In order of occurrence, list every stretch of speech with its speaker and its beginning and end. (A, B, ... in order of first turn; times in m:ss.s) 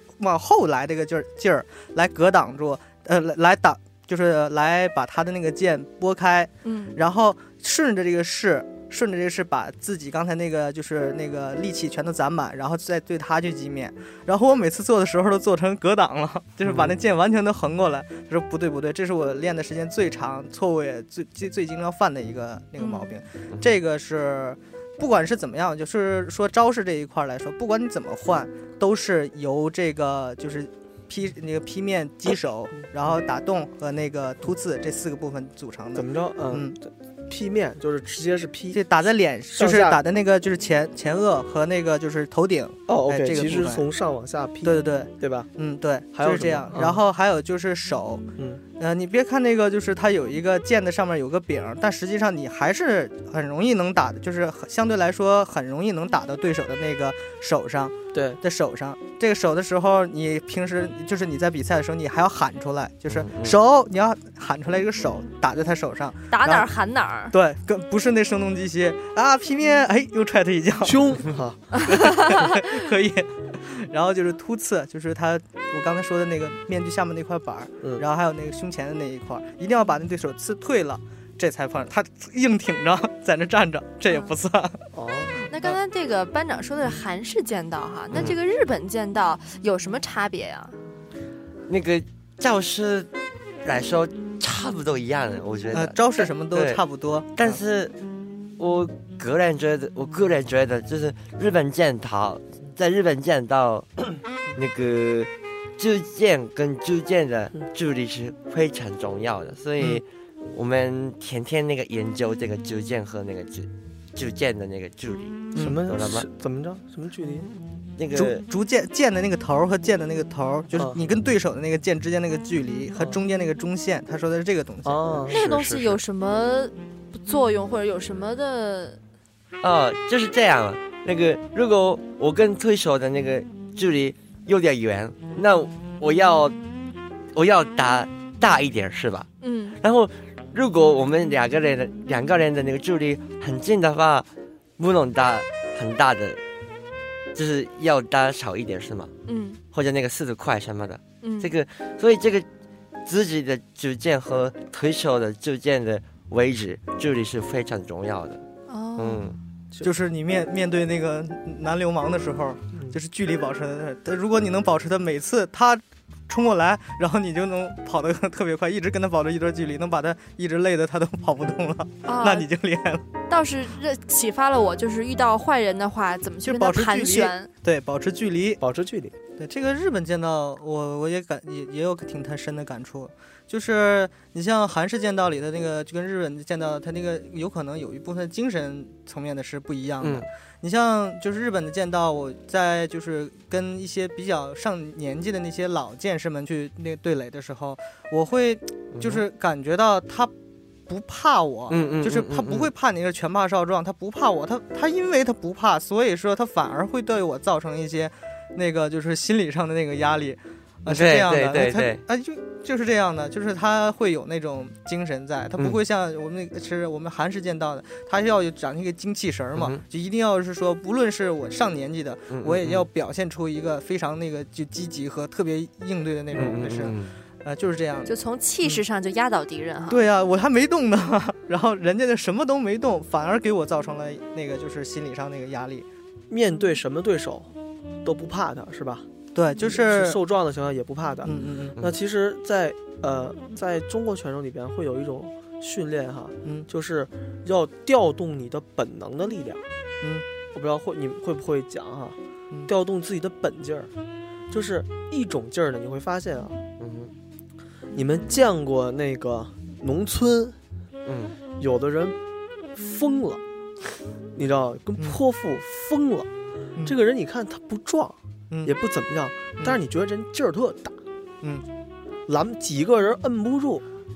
0:00.2-0:36.8 A
0:06.6-0:07.0 B
0:16.6-0:16.9 C
0:22.8-0:23.2 B
0:35.9-0:38.8 D
0:38.7-0:43.8 A
0:39.5-0:40.0 D
0:42.9-0:45.5 D
0:44.6-0:48.2 A
0:46.1-0:47.0 D
0:48.8-1:06.7 A
0:58.1-0:58.4 D
1:03.1-1:03.6 C
1:06.3-1:07.3 B
1:07.3-1:11.2 A
1:10.8-1:11.7 D
1:11.9-1:24.8 A
1:17.8-1:18.1 D
1:24.9-1:25.5 D
1:25.5-1:30.8 B
1:31.7-1:33.1 C
1:33.6-1:36.8 C
1:35.7-1:37.6 A
1:37.4-1:38.0 C
1:38.6-1:44.0 C
1:44.6-1:56.3 C
1:55.6-1:57.5 D
1:58.0-1:58.4 C
1:58.1-2:05.1 A
2:00.7-2:01.0 D
2:04.8-2:05.4 D
2:05.3-2:06.0 C
2:05.3-2:09.0 B
2:09.6-2:16.6 C
2:17.3-2:19.3 C
2:19.4-2:19.8 B
2:19.8-2:26.4 C
2:27.4-2:29.1 C
2:29.3-2:29.6 B
2:29.7-2:32.5 C
2:31.2-2:31.5 B
2:33.1-2:38.4 C
2:38.7-2:39.2 B
2:39.0-2:39.4 C
2:39.8-2:53.1 A
2:52.0-2:52.5 B
2:53.3-2:57.5 B
2:56.4-2:58.6 A
2:58.6-2:59.2 D
2:59.4-3:20.3 A
3:10.0-3:10.3 C
3:18.9-3:19.2 C
3:20.9-3:48.1 A
3:21.7-3:22.7 C
3:30.9-3:32.0 C
3:39.6-3:39.8 C
3:42.3-3:42.9 C
3:46.3-3:47.1 C
3:48.1-3:50.0 B
3:49.9-3:55.9 A
3:56.3-3:57.5 D
3:58.0-4:09.6 D
3:59.4-4:00.2 A
4:01.3-4:01.8 A
4:10.5-4:13.9 D
4:14.5-4:16.6 D
4:16.8-4:17.1 C
4:17.9-4:20.6 D
4:21.1-4:21.4 C
4:21.6-4:22.2 D
4:22.7-4:23.4 D
4:24.4-4:26.3 D
4:26.8-4:31.0 D
4:32.3-4:33.8 D